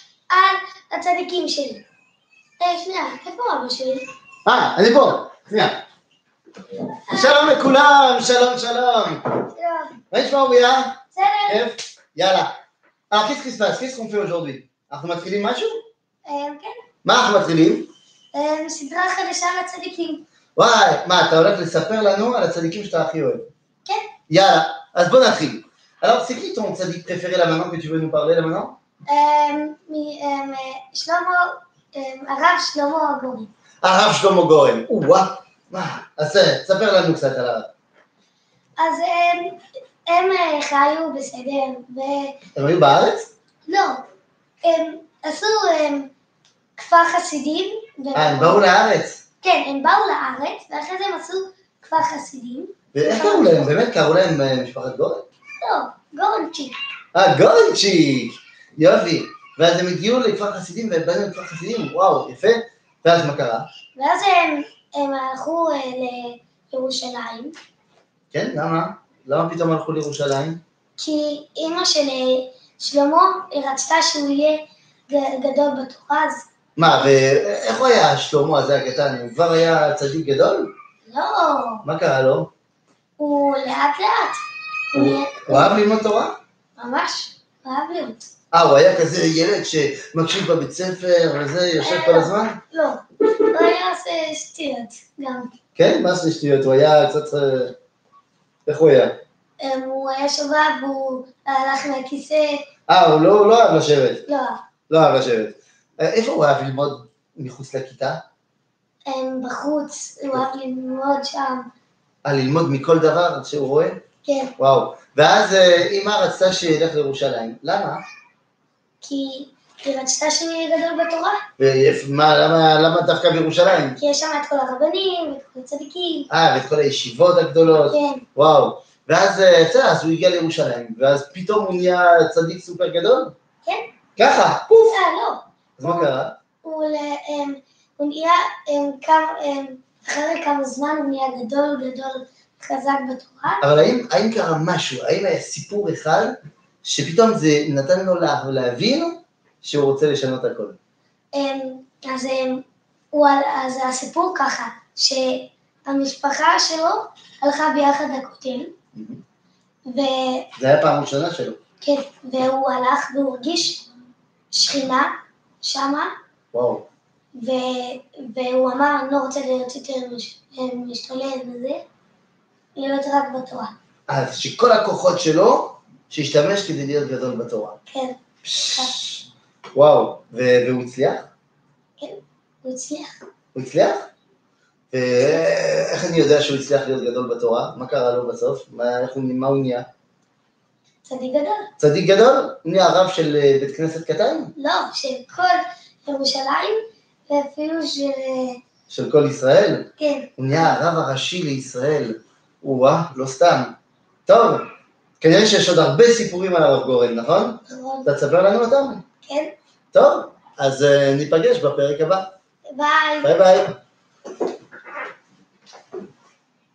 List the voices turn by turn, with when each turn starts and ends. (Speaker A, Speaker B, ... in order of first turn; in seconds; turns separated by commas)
Speaker A: 0.3-1.8, Speaker A: 2.6-4.0, Speaker B: 4.5-5.8, Speaker A: 7.1-7.4, Speaker B: 7.1-9.3, Speaker A: 9.5-10.0, Speaker B: 10.1-12.5, Speaker A: 11.1-11.6, Speaker B: 13.1-15.8, Speaker A: 16.3-16.8, Speaker B: 17.0-17.9, Speaker A: 18.3-20.2, Speaker B: 20.6-23.5, Speaker A: 23.9-24.1, Speaker B: 24.3-28.8, Speaker A: 29.1-33.5, Speaker B: 33.8-37.7, Speaker A: 38.8-42.4, Speaker B: 42.5-43.3, Speaker A: 43.7-44.0, Speaker A: 44.6-46.1, Speaker A: 46.8-48.7, Speaker B: 48.1-49.2, Speaker A: 49.4-53.8, Speaker B: 52.9-55.3, Speaker A: 55.6-56.8, Speaker B: 57.1-63.7, Speaker A: 64.0-67.5, Speaker B: 68.3-70.6, Speaker A: 71.0-76.5, Speaker B: 76.8-80.7, Speaker A: 81.0-81.8, Speaker B: 81.8-82.5, Speaker A: 83.2-84.4, Speaker A: 84.9-85.7, Speaker B: 85.0-86.4, Speaker A: 86.8-88.2, Speaker B: 88.5-92.6, Speaker A: 91.8-95.5, Speaker B: 95.8-97.8, Speaker B: 98.7-99.2, Speaker A: 99.6-102.6, Speaker B: 102.9-104.2, Speaker A: 104.3-104.6, Speaker B: 104.9-108.2, Speaker A: 109.1-111.7, Speaker B: 112.2-114.0, Speaker A: 114.2-114.5, Speaker B: 114.6-118.0, Speaker A: 119.0-121.4, Speaker B: 121.6-124.0, Speaker A: 124.0-126.3, Speaker B: 126.3-133.3, Speaker A: 127.9-128.2, Speaker A: 133.7-133.9, Speaker B: 134.2-135.0, Speaker A: 134.8-136.1, Speaker B: 135.8-136.4, Speaker A: 136.6-143.6, Speaker B: 143.6-150.8, Speaker A: 151.3-158.7, Speaker B: 158.9-159.2, Speaker A: 159.9-160.5, Speaker B: 160.6-161.6, Speaker A: 161.8-163.8, Speaker A: 164.5-166.1, Speaker B: 166.5-166.9, Speaker A: 167.4-171.8, Speaker A: 172.8-173.7, Speaker B: 174.1-177.8, Speaker A: 177.9-178.9, Speaker B: 178.4-181.3, Speaker A: 182.0-183.2, Speaker B: 183.6-184.1, Speaker B: 184.9-189.9, Speaker A: 191.1-191.7, Speaker B: 191.8-194.5, Speaker A: 194.6-198.6, Speaker B: 198.9-203.8, Speaker A: 200.0-200.3, Speaker B: 204.3-204.7, Speaker B: 205.2-209.0, Speaker A: 207.7-208.1, Speaker A: 209.2-209.5, Speaker B: 209.9-212.3, Speaker A: 212.7-213.3, Speaker B: 213.2-213.8